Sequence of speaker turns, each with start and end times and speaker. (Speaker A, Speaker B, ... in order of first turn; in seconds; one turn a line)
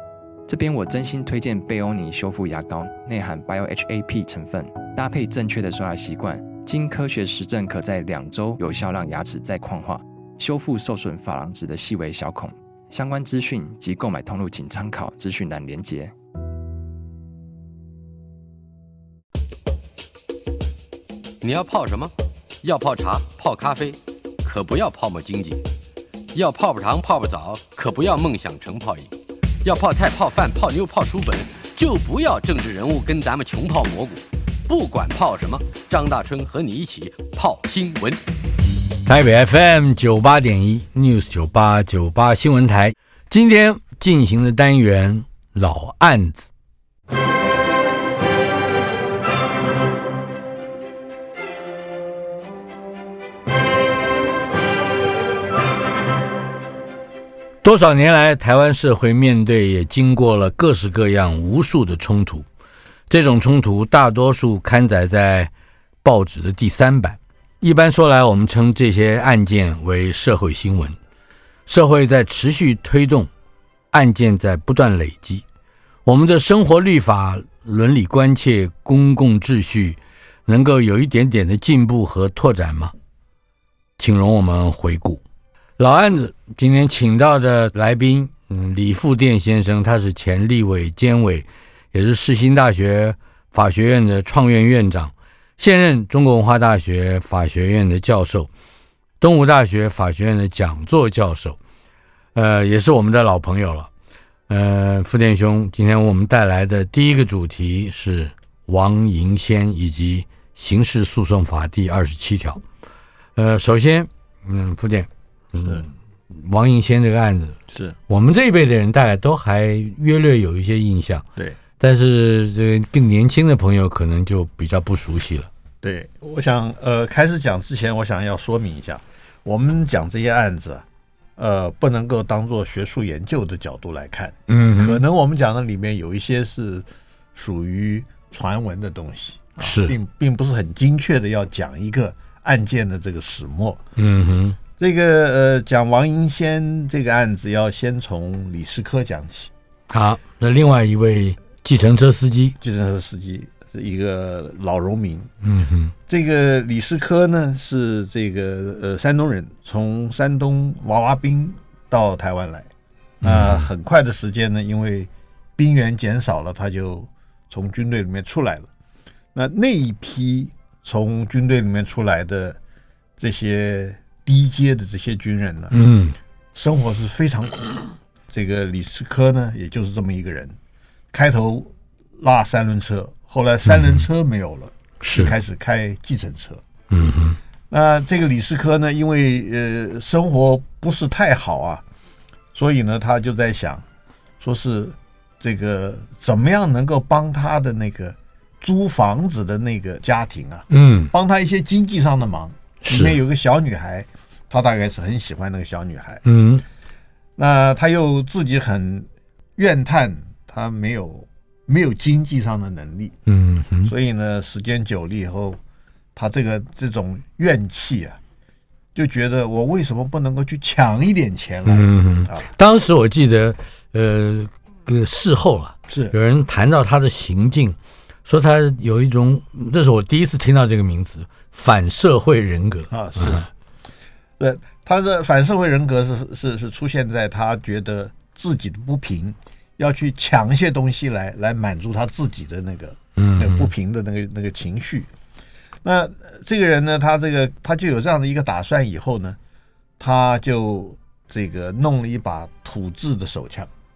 Speaker A: 0.5-16.1
Speaker B: 21.4-25.6
Speaker B: 26.3-29.1
Speaker B: 29.6-38.2
Speaker C: 39.1-46.5
Speaker C: 57.6-62.5
Speaker C: 63.1-65.5
Speaker C: 66.0-71.0
Speaker C: 71.7-73.3
Speaker C: 73.9-75.4
Speaker C: 76.1-82.9
Speaker C: 84.0-85.2
Speaker C: 85.8-98.5
Speaker C: 99.2-101.6
Speaker C: 102.3-103.9
Speaker C: 104.5-112.6
Speaker C: 113.4-121.2
Speaker D: 117.7-118.0
Speaker C: 121.8-125.5
Speaker D: 125.8-130.9
Speaker D: 131.4-143.8
Speaker C: 134.5-135.0
Speaker C: 139.6-139.9
Speaker C: 144.0-144.6
Speaker D: 144.8-149.5
Speaker C: 149.9-152.6
Speaker D: 152.6-155.3
Speaker C: 155.4-155.9
Speaker D: 156.1-162.7
Speaker C: 163.2-163.7
Speaker D: 163.2-168.7
Speaker D: 169.3-172.6
Speaker D: 173.2-175.8
Speaker C: 175.7-176.2
Speaker D: 176.5-180.6
Speaker D: 181.1-186.6
Speaker C: 183.7-184.1
Speaker C: 185.0-185.3
Speaker C: 186.9-187.4
Speaker D: 187.7-191.8
Speaker D: 192.5-193.8
Speaker D: 194.4-206.2
Speaker C: 200.7-201.1
Speaker C: 202.8-203.2
Speaker C: 206.2-206.6
Speaker D: 207.4-213.2
Speaker C: 213.3-213.9
Speaker D: 213.8-215.6
Speaker D: 216.2-218.2
Speaker D: 218.9-222.5
Speaker C: 221.7-233.5
Speaker D: 225.9-226.2
Speaker D: 232.9-233.4
Speaker D: 234.4-245.1
Speaker C: 243.2-243.7
Speaker D: 245.8-249.4
Speaker D: 250.0-253.7